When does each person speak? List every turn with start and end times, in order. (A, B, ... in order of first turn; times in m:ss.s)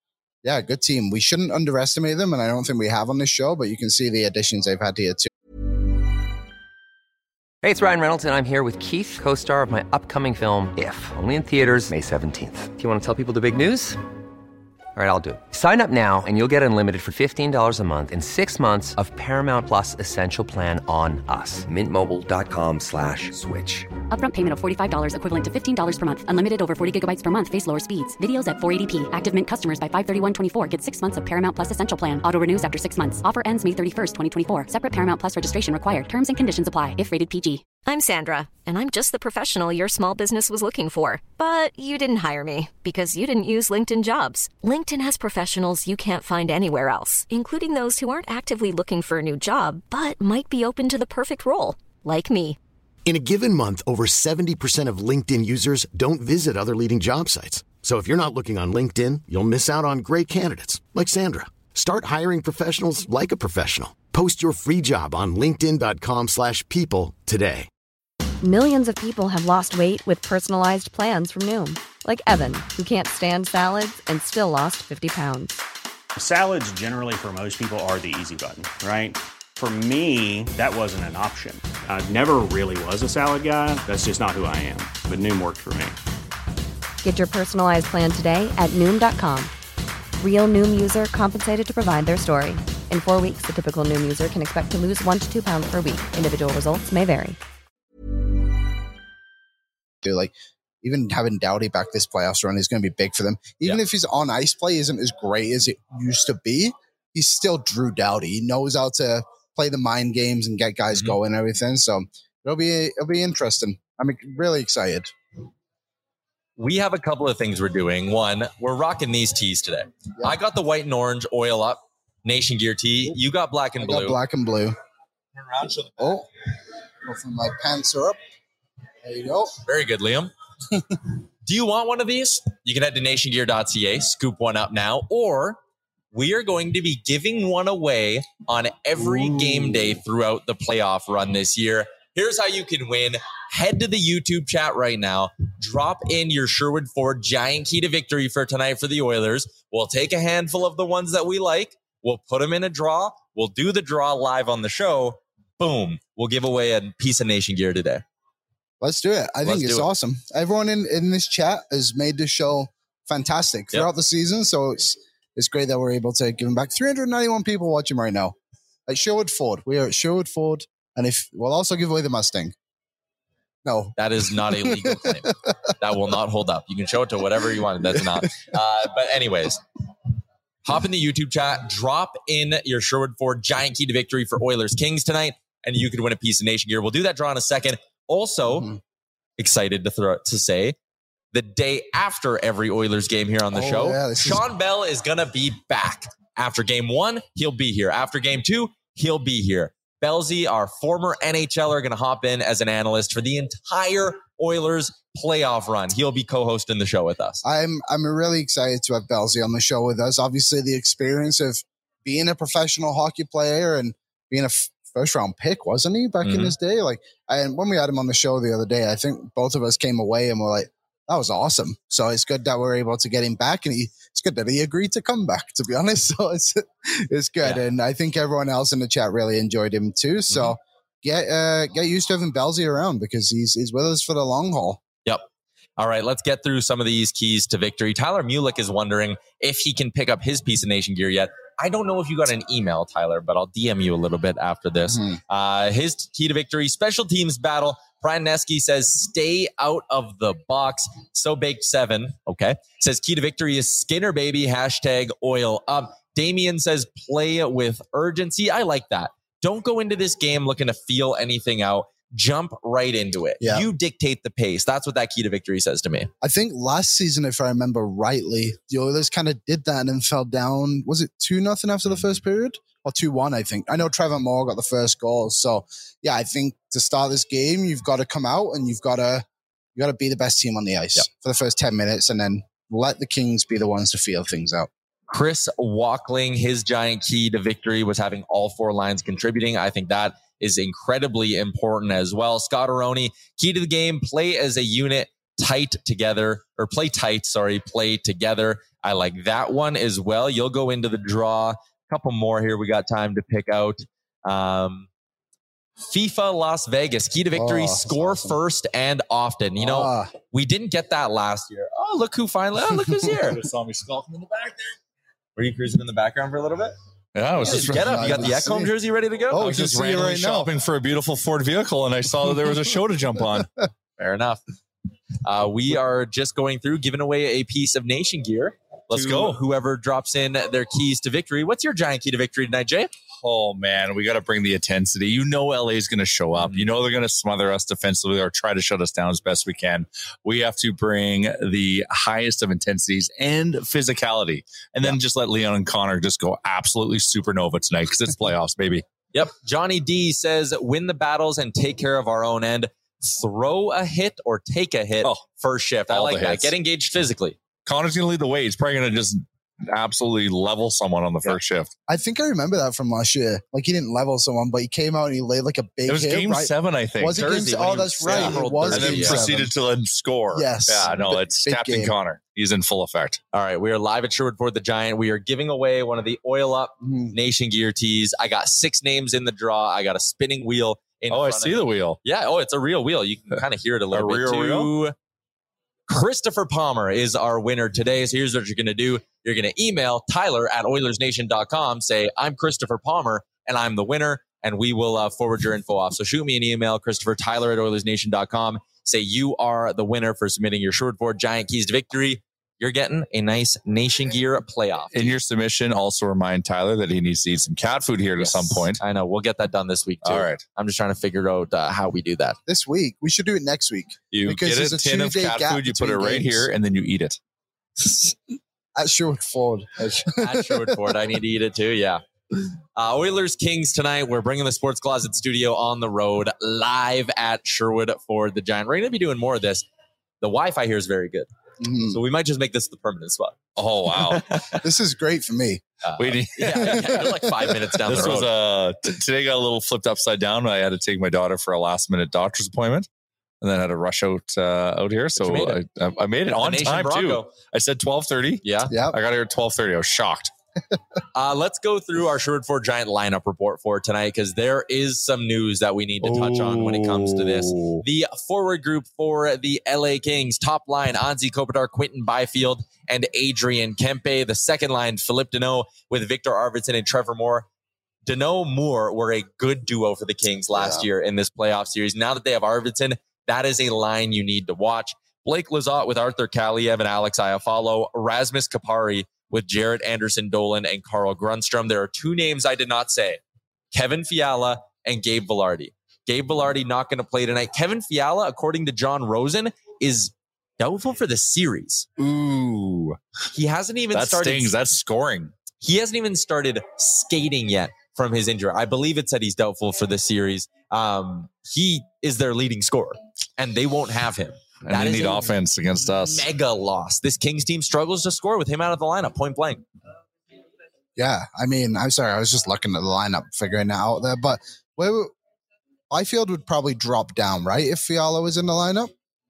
0:00.4-0:05.3 A
0:07.6-0:14.0 B
0:15.0-0:23.9 B
0:24.1-0:37.6 C
0:37.8-0:52.6 D
0:53.0-1:07.7 E
1:08.4-1:15.6 F
1:16.2-1:26.0 G
1:27.0-1:29.5 F
1:30.2-1:37.4 F
1:40.0-1:55.1 A
1:50.9-1:51.2 H
1:56.6-2:04.2 H
2:03.8-2:04.8 A
2:05.4-2:05.9 H
2:06.0-2:06.3 A
2:07.0-2:08.2 A
2:09.0-2:09.5 A
2:09.6-2:10.3 H
2:11.4-2:15.6 H
2:16.1-2:38.0 H
2:19.0-2:19.7 A
2:38.8-2:48.4 A
2:39.4-2:39.9 H
2:48.9-2:52.5 A
2:53.6-2:55.7 A
2:54.0-2:59.6 H
2:57.8-2:58.2 A
3:00.6-3:08.7 H
3:08.4-3:08.8 A
3:09.4-3:10.7 H
3:11.3-3:27.4 H
3:13.5-3:14.4 A
3:27.4-3:54.8 A
3:36.2-3:36.5 H
3:50.3-3:50.6 H
3:55.8-4:26.1 H
4:04.9-4:05.2 A
4:23.4-4:23.7 A
4:26.2-4:44.7 A
4:45.1-5:04.9 H
5:05.8-5:13.4 H
5:07.3-5:08.4 A
5:09.6-5:10.1 A
5:13.2-5:14.8 I
5:15.4-5:16.7 H
5:17.1-5:18.4 I
5:17.4-5:19.5 H
5:17.4-5:18.7 A
5:19.3-5:20.5 A
5:19.3-5:23.5 I
5:24.0-5:24.4 H
5:25.2-5:32.9 H
5:28.9-5:29.4 I
5:33.2-5:48.8 I
5:36.3-5:36.7 H
5:49.1-5:57.4 H
5:55.9-5:56.5 I
5:57.6-6:01.7 I
6:01.9-6:09.5 A
6:05.9-6:13.2 I
6:07.1-6:09.3 H
6:10.3-6:11.9 A
6:13.3-6:24.9 H
6:16.8-6:17.1 A
6:21.1-6:22.0 I
6:23.9-6:24.7 I
6:25.9-6:45.2 H
6:44.9-6:48.8 I
6:48.2-6:52.4 H
6:50.0-6:50.4 I
6:52.5-6:56.5 A
6:54.1-6:57.2 I
6:57.8-6:58.2 A
6:58.8-7:00.8 A
6:59.8-7:00.0 I
7:00.2-7:02.0 H
7:02.8-7:09.6 H
7:10.2-7:11.3 H
7:11.6-7:12.0 A
7:11.9-7:13.4 H
7:13.6-7:14.2 I
7:13.9-7:14.6 H
7:14.5-7:15.6 A
7:15.8-7:18.3 H
7:16.0-7:17.1 I
7:16.5-7:17.5 A
7:17.8-7:22.9 I
7:23.4-7:30.3 I
7:25.2-7:25.6 H
7:26.2-7:27.3 H
7:28.4-7:28.7 H
7:28.7-7:29.0 A
7:31.1-7:47.4 H
7:36.0-7:37.8 I
7:48.0-8:03.2 H
7:50.5-7:50.8 A
8:03.7-8:11.8 H
8:12.0-8:13.0 I
8:13.3-8:14.5 H
8:13.9-8:15.3 I
8:15.6-8:25.3 H
8:24.6-8:26.2 I
8:26.0-8:29.6 H
8:31.0-8:35.1 A
8:35.9-8:38.9 A